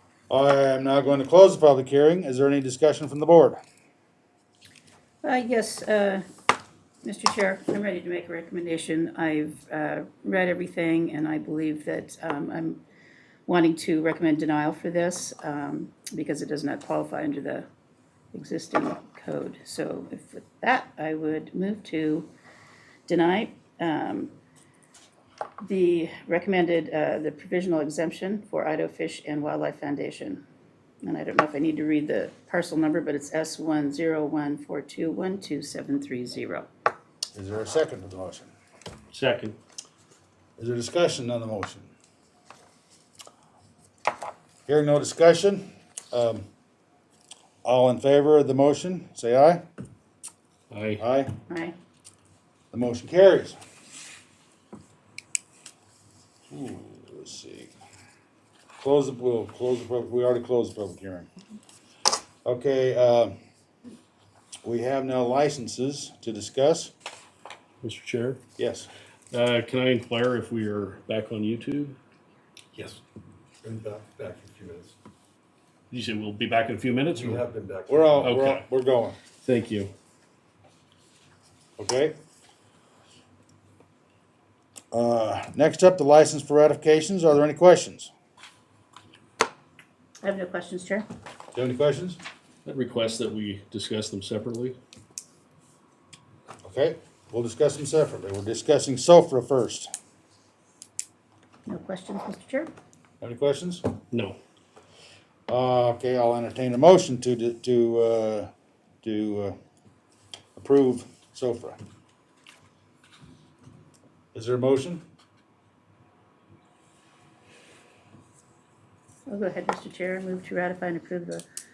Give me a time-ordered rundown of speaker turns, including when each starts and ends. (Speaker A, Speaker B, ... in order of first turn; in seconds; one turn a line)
Speaker A: 0.3-3.6
Speaker B: 5.2-6.2
Speaker B: 7.0-12.8
Speaker B: 13.5-17.7
Speaker B: 18.3-22.3
Speaker B: 23.1-24.3
Speaker B: 25.6-30.4
Speaker B: 31.0-36.7
Speaker A: 37.3-38.5
Speaker C: 39.1-39.5
Speaker A: 40.6-41.9
Speaker A: 44.7-46.5
Speaker A: 47.6-49.6
Speaker C: 50.7-51.0
Speaker A: 51.0-51.4
Speaker B: 51.5-51.8
Speaker A: 52.7-53.6
Speaker A: 56.5-57.7
Speaker A: 58.8-61.3
Speaker A: 62.5-63.4
Speaker A: 64.6-66.9
Speaker C: 67.8-68.4
Speaker A: 68.6-68.9
Speaker C: 69.3-72.0
Speaker D: 73.6-74.9
Speaker C: 75.9-77.4
Speaker D: 77.2-78.2
Speaker A: 77.9-79.2
Speaker C: 78.2-78.7
Speaker C: 79.4-79.9
Speaker A: 81.8-82.2
Speaker A: 84.9-88.1
Speaker B: 90.2-91.1
Speaker A: 91.5-92.2
Speaker C: 92.7-94.8
Speaker A: 96.6-99.9
Speaker B: 101.7-102.7
Speaker A: 103.2-103.8
Speaker C: 104.1-104.4
Speaker A: 105.5-108.5
Speaker A: 109.0-109.6
Speaker A: 110.6-111.8
Speaker A: 114.3-115.0
Speaker B: 119.3-121.5